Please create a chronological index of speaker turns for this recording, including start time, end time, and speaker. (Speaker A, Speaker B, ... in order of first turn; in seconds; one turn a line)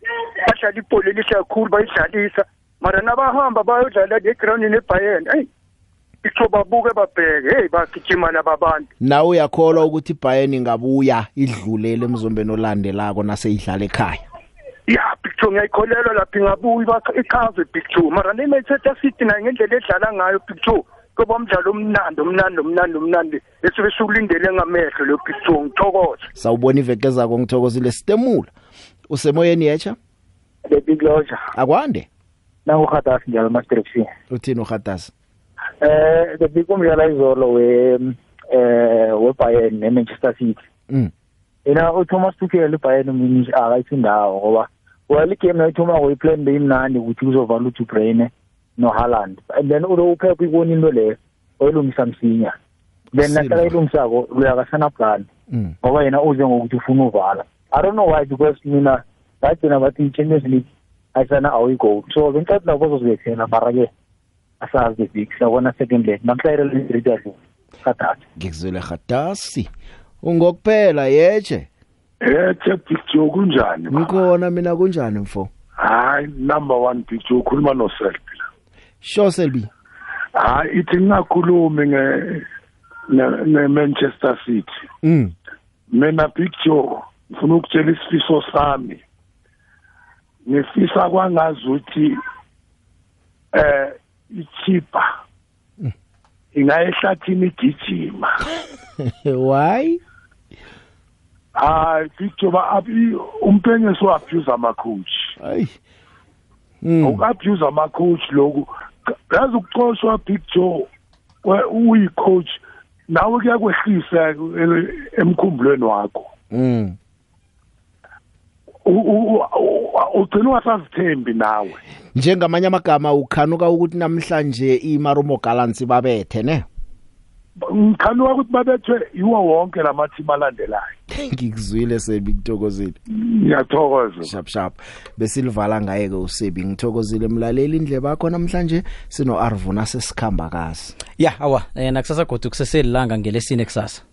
Speaker A: 0.4-5.5
Speaker A: 6.2-8.9
Speaker B: 9.0-14.2
Speaker A: 14.9-26.2
Speaker B: 26.4-28.5
Speaker B: 29.1-30.0
Speaker C: 30.7-31.4
Speaker B: 31.5-32.1
Speaker C: 32.6-34.1
Speaker B: 34.3-35.1
Speaker C: 35.8-40.6
Speaker C: 41.6-52.5
Speaker C: 53.1-55.2
Speaker B: 53.2-53.7
Speaker B: 55.5-55.7
Speaker C: 55.8-63.9
Speaker C: 64.6-68.2
Speaker B: 68.3-69.7
Speaker B: 70.2-71.7
Speaker D: 72.2-74.2
Speaker B: 73.9-75.5
Speaker D: 75.8-78.4
Speaker B: 79.0-79.7
Speaker D: 80.4-82.5
Speaker D: 83.1-84.7
Speaker B: 85.0-85.3
Speaker D: 85.9-89.0
Speaker D: 90.5-92.2
Speaker D: 93.5-95.1
Speaker D: 96.5-98.3
Speaker B: 99.0-100.0
Speaker D: 101.6-105.3
Speaker B: 105.4-105.8
Speaker B: 106.8-107.2
Speaker D: 107.0-108.7
Speaker D: 109.3-110.9
Speaker D: 111.4-116.3
Speaker B: 116.5-117.0
Speaker D: 118.8-121.8
Speaker B: 122.1-126.7
Speaker D: 127.6-130.9
Speaker B: 131.1-133.0
Speaker D: 133.1-134.3
Speaker B: 134.2-141.0
Speaker E: 141.2-144.0